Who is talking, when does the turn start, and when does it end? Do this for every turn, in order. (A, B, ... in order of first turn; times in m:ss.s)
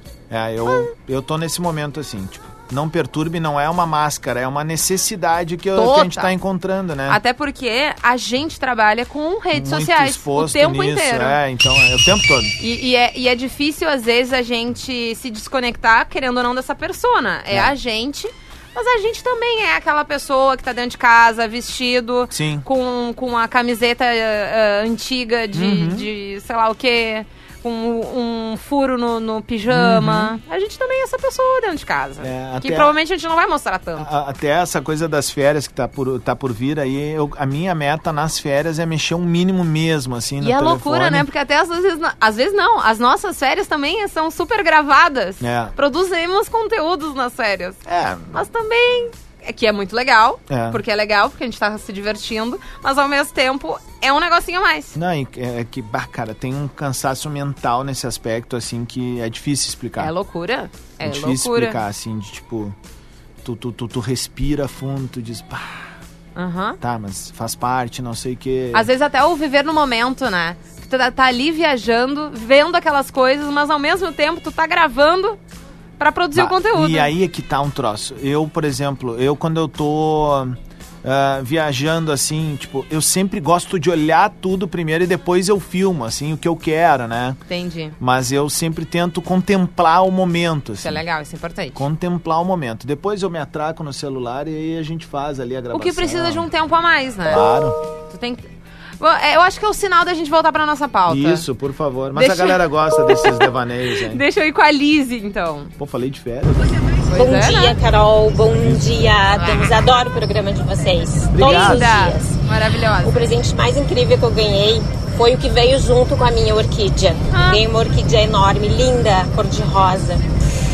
0:00.3-0:07.2 A
0:05.7-0:06.3 B
0:07.1-0:11.4 B
0:09.5-0:12.5 A
0:12.6-0:34.1 B
0:22.3-0:22.6 A
0:25.5-0:26.1 A
0:29.7-0:30.3 A
0:32.2-0:32.9 A
0:34.0-0:41.2 A
0:40.4-0:47.8 B
0:45.4-0:45.7 A
0:47.8-0:48.4 A
0:48.3-0:54.9 B
0:50.5-0:50.8 A
0:54.9-1:00.1 A
1:00.0-1:01.8 B
1:01.0-1:02.8 A
1:03.4-1:05.9 A
1:06.4-1:06.8 B
1:06.8-1:08.9 A
1:08.7-1:15.4 B
1:16.0-1:17.1 B
1:16.3-1:27.4 A
1:27.5-1:28.0 B
1:28.0-1:31.0 A
1:30.8-1:31.8 B
1:31.7-1:36.5 A
1:35.7-1:37.4 B
1:37.2-1:37.8 A
1:38.1-1:38.5 B
1:39.0-1:41.4 B
1:41.1-1:44.2 A
1:42.1-1:43.5 B
1:44.1-1:45.7 B
1:45.8-1:46.7 A
1:47.1-1:47.8 B
1:47.1-1:52.3 C
1:49.3-1:49.8 B
1:51.3-1:52.0 A
1:51.4-1:53.3 B
1:53.0-2:00.2 C
1:57.3-1:57.6 B